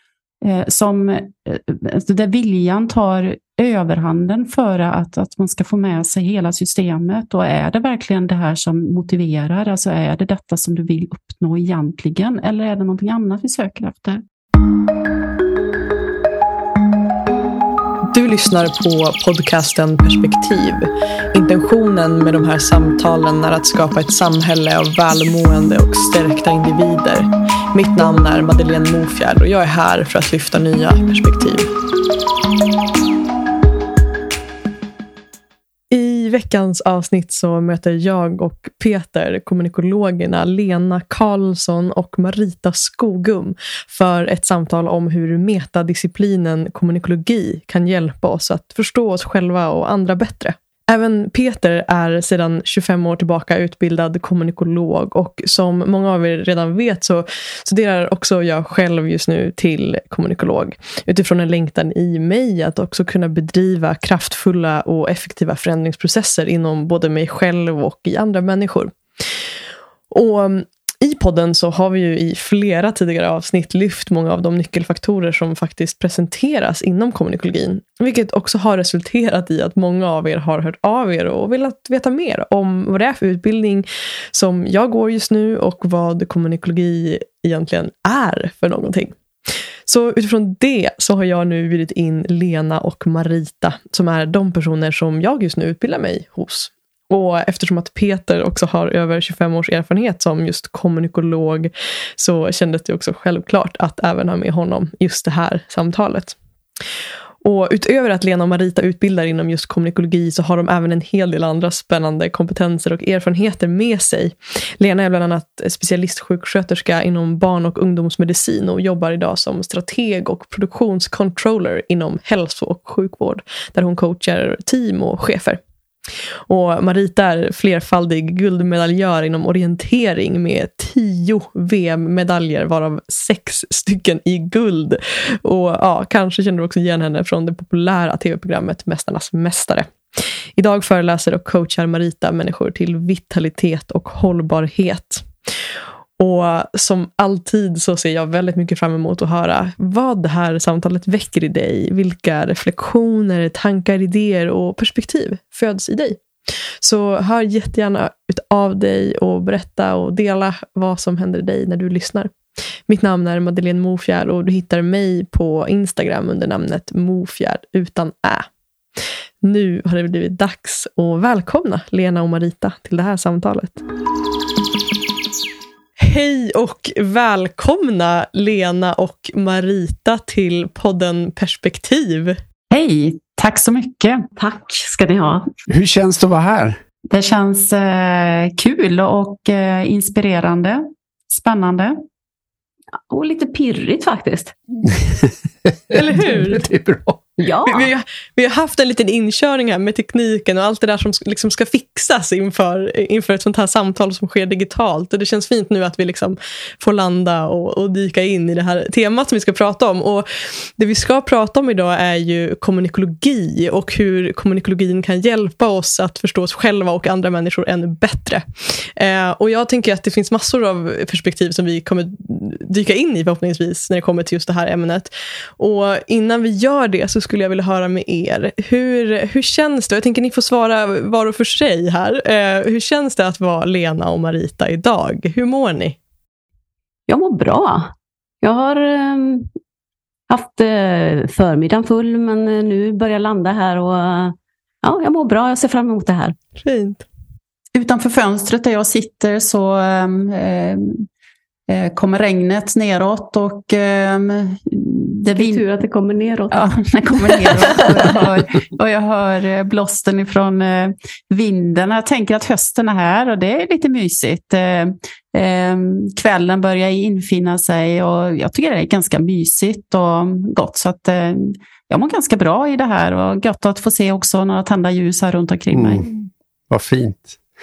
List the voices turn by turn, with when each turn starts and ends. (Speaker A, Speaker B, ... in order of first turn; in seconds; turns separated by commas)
Speaker A: 0.4-14.2, Speaker B: 18.1-31.7, Speaker B: 35.9-69.0, Speaker B: 70.1-89.2, Speaker B: 89.8-106.4, Speaker B: 107.4-125.6, Speaker B: 126.5-145.3, Speaker B: 146.2-156.2, Speaker B: 156.8-162.3, Speaker B: 162.9-168.5, Speaker B: 169.4-173.8, Speaker B: 176.0-182.4, Speaker A: 182.7-184.3, Speaker C: 184.4-185.5, Speaker D: 185.7-186.8, Speaker A: 187.1-192.0, Speaker C: 193.1-194.5, Speaker D: 194.9-197.2, Speaker B: 195.9-196.6, Speaker C: 197.4-197.9, Speaker B: 197.7-236.0, Speaker C: 237.1-239.5, Speaker C: 240.3-246.4, Speaker B: 246.6-247.0, Speaker A: 247.7-251.1, Speaker A: 251.7-255.6, Speaker C: 255.3-256.6, Speaker A: 256.5-276.1, Speaker C: 257.4-258.1, Speaker D: 275.7-276.0, Speaker D: 276.7-277.4